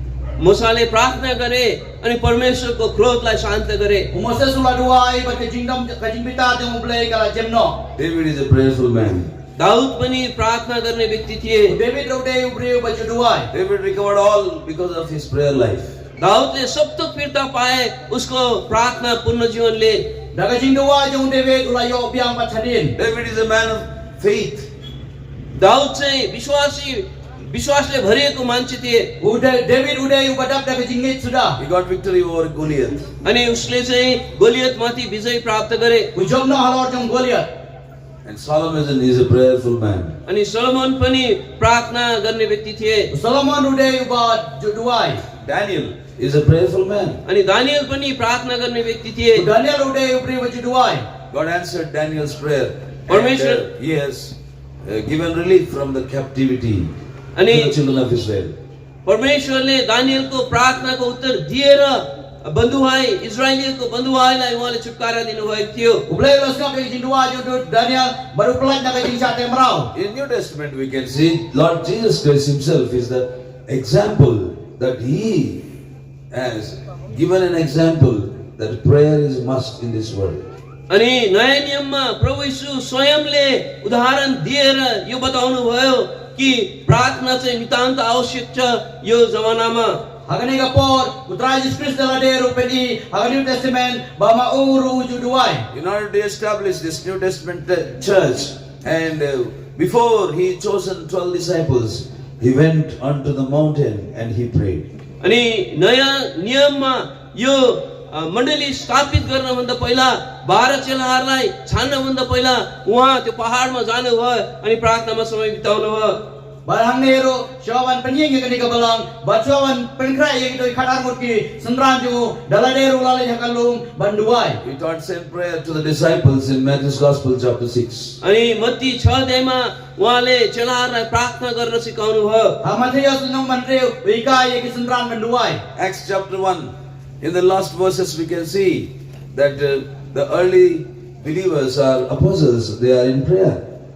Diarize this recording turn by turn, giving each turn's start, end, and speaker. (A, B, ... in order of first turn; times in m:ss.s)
0:00.4-0:04.1 A
0:04.1-0:07.8 B
0:08.0-0:09.3 C
0:09.6-0:11.8 A
0:11.7-0:13.5 B
0:13.5-0:15.9 C
0:16.2-0:20.0 A
0:20.3-0:23.0 B
0:23.0-0:24.7 C
0:25.6-0:29.1 A
0:29.2-0:31.6 B
0:31.6-0:33.1 C
0:33.2-0:36.1 A
0:36.1-0:37.5 B
0:38.2-0:40.1 C
0:40.3-0:43.1 A
0:43.1-0:45.2 B
0:45.4-0:47.2 C
0:47.2-0:49.4 A
0:49.3-0:51.0 B
0:51.3-0:56.9 C
0:53.1-0:53.6 A
0:57.4-0:57.7 A
0:57.5-0:58.5 C
0:59.0-1:06.0 A
1:06.1-1:09.9 B
1:09.9-1:15.7 C
1:16.3-1:20.5 C
1:20.9-1:30.0 A
1:30.3-1:35.7 B
1:35.7-1:44.9 C
1:45.2-1:56.2 A
1:56.6-2:04.6 B
2:04.6-2:08.2 C
2:08.2-2:12.6 A
2:12.6-2:15.6 B
2:15.7-2:16.7 C
2:17.2-2:23.6 C